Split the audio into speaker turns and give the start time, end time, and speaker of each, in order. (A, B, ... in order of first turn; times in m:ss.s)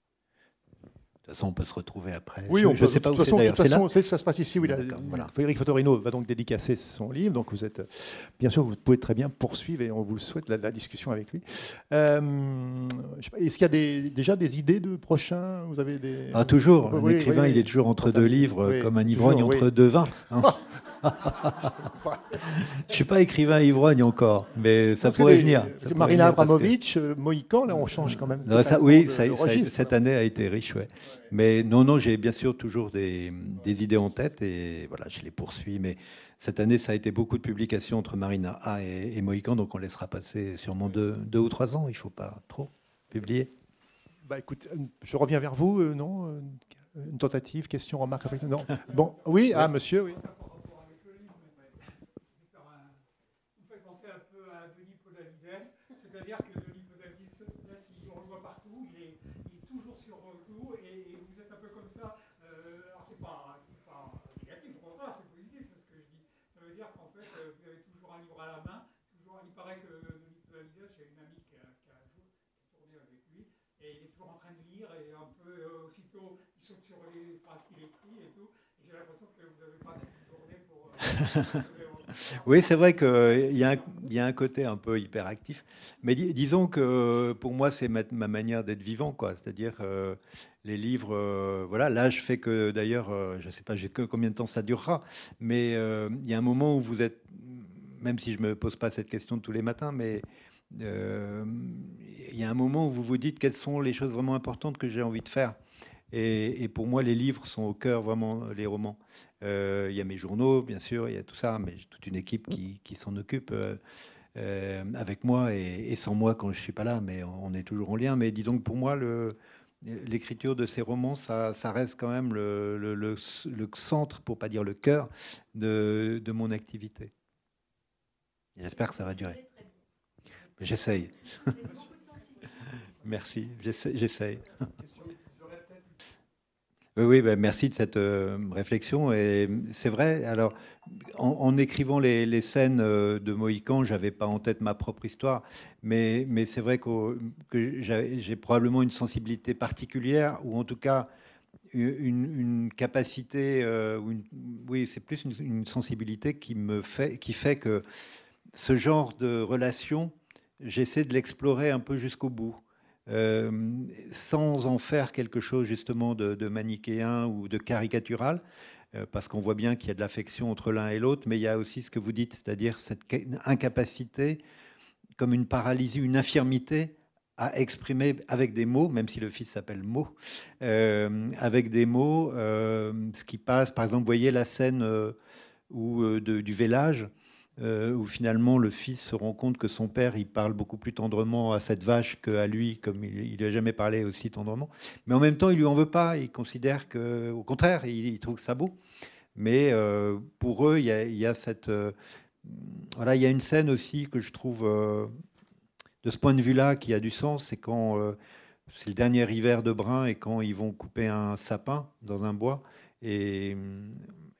0:01.2-0:03.8 A
0:02.5-0:19.7 B
0:04.6-0:05.3 A
0:16.3-0:21.8 A
0:21.6-0:22.4 B
0:22.5-0:26.7 A
0:25.0-0:30.0 B
0:28.4-0:43.5 A
0:44.2-0:50.2 B
0:48.2-0:53.0 C
0:53.5-1:22.7 C
1:22.3-1:45.6 A
1:46.1-1:53.8 A
1:54.4-2:07.1 A
2:08.6-2:09.5 A
2:10.6-2:11.9 A
2:13.0-2:14.7 A
2:14.8-2:15.9 C
2:17.0-2:31.1 A
2:31.7-2:37.8 A
2:38.5-2:54.4 A
2:55.2-3:05.2 A
3:05.7-3:18.8 A
3:19.4-3:25.1 A
3:26.0-3:28.2 A
3:28.7-3:34.1 A